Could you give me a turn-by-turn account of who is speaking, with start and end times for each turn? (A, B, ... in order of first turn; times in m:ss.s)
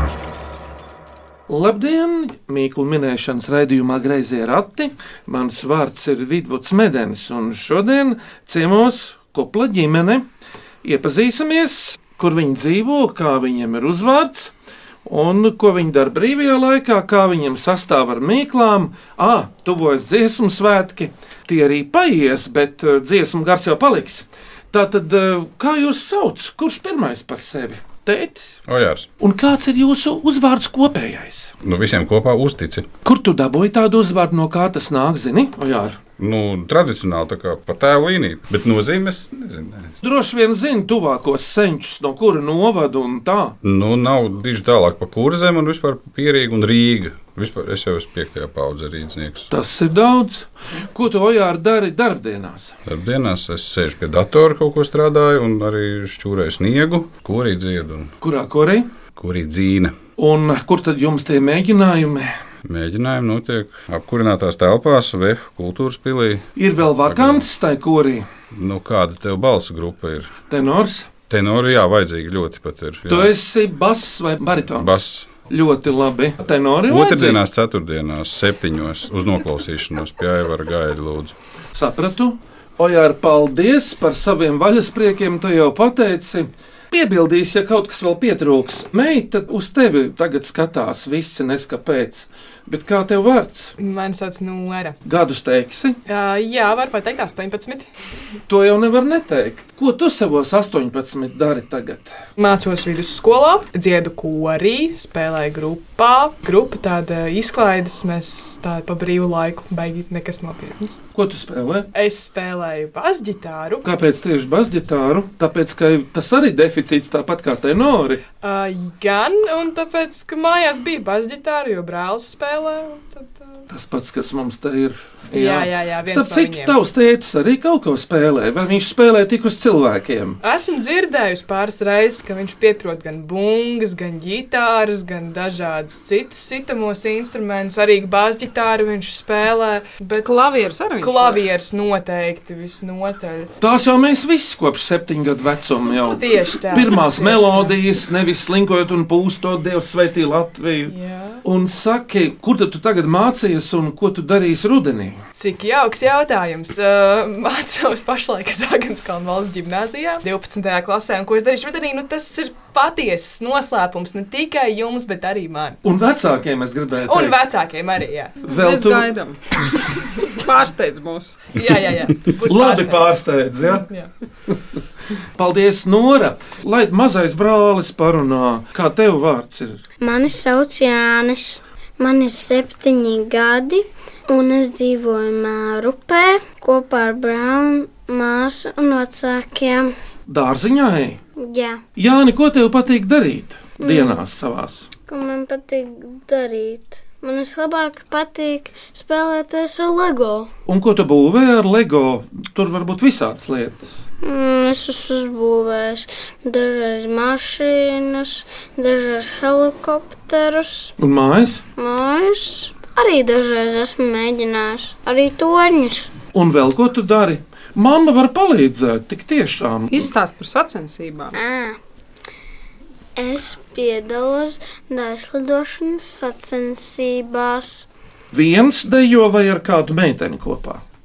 0:01.5-0:10.2 A
0:10.8-0:14.5 A
0:15.0-0:28.6 A
0:28.7-0:29.0 B
0:29.2-0:31.5 A
0:31.6-0:32.8 B
0:33.0-0:36.0 A
0:36.2-0:40.0 B
0:40.0-0:43.6 A
0:43.6-0:49.5 B
0:49.5-0:52.8 A
0:52.8-0:58.1 B
0:58.2-0:58.9 A
0:59.2-1:00.0 B
1:00.2-1:02.3 A
1:02.6-1:06.5 B
1:06.6-1:08.2 A
1:07.0-1:07.4 B
1:08.5-1:10.4 B
1:10.5-1:11.1 A
1:11.3-1:13.3 B
1:13.1-1:17.4 A
1:14.6-1:15.3 B
1:16.8-1:21.3 B
1:21.7-1:33.7 A
1:33.8-1:35.0 C
1:35.0-1:36.0 A
1:36.0-1:37.9 C
1:38.5-1:42.2 A
1:42.4-1:51.0 C
1:51.1-1:51.9 A
1:51.9-1:53.9 C
1:53.8-1:58.2 A
1:58.4-2:03.6 C
2:03.7-2:10.4 A
2:05.3-2:06.8 C
2:10.4-2:20.3 C
2:20.2-2:21.4 D
2:21.0-2:23.5 C
2:23.6-2:35.2 A
2:26.2-2:27.8 C
2:30.9-2:31.4 C
2:35.4-2:45.8 C
2:45.8-2:47.4 A
2:47.1-2:48.4 C
2:48.4-2:49.1 A
2:48.5-2:49.4 D
2:50.3-2:51.4 D
2:51.5-2:54.1 C
2:52.4-2:53.8 A
2:55.4-2:59.8 A
3:00.0-3:09.9 E
3:10.3-3:11.2 A
3:11.4-3:11.8 E
3:12.0-3:14.9 A
3:13.8-3:14.2 E
3:15.1-3:20.5 E
3:20.7-3:24.0 A
3:24.2-3:30.9 E
3:31.0-3:31.6 A
3:31.8-3:36.1 E
3:36.3-3:40.1 A
3:39.9-3:41.4 D
3:41.4-3:41.8 E
3:43.2-3:47.9 E
3:48.3-3:50.8 A